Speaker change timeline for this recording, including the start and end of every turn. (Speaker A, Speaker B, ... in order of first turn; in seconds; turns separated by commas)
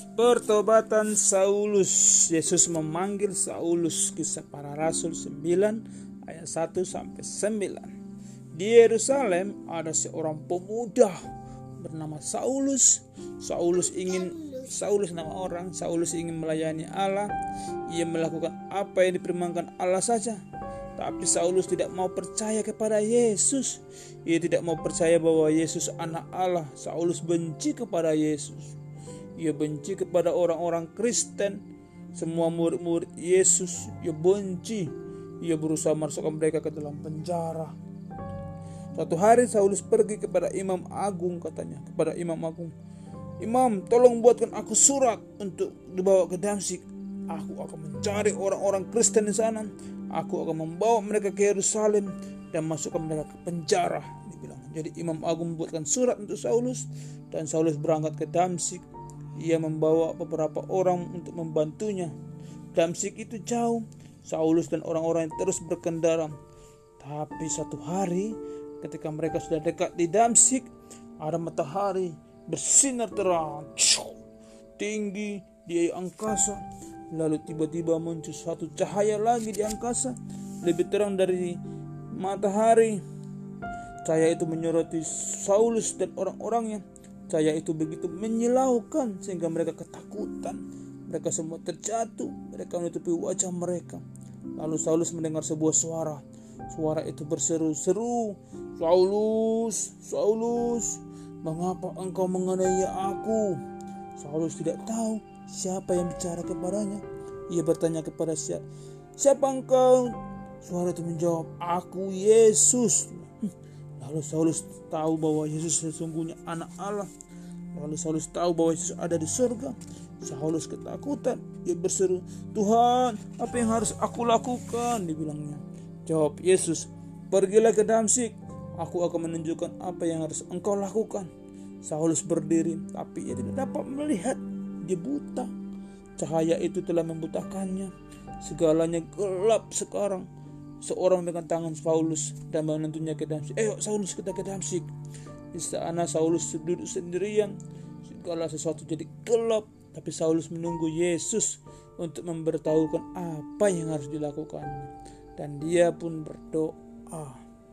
Speaker A: 0.1-7.9, Speaker A: 8.5-11.2, Speaker A: 11.8-17.3, Speaker A: 17.9-20.4, Speaker A: 21.0-28.8, Speaker A: 29.4-31.6, Speaker A: 32.1-34.9, Speaker A: 35.4-37.7, Speaker A: 38.9-42.7, Speaker A: 43.4-58.8, Speaker A: 59.4-62.1, Speaker A: 62.7-66.3, Speaker A: 67.0-70.7, Speaker A: 71.2-74.2, Speaker A: 74.8-81.6, Speaker A: 82.1-83.0, Speaker A: 84.0-94.0, Speaker A: 94.5-103.6, Speaker A: 104.2-108.6, Speaker A: 109.2-117.1, Speaker A: 117.7-131.3, Speaker A: 131.8-135.5, Speaker A: 136.2-140.3, Speaker A: 140.8-144.9, Speaker A: 145.5-157.4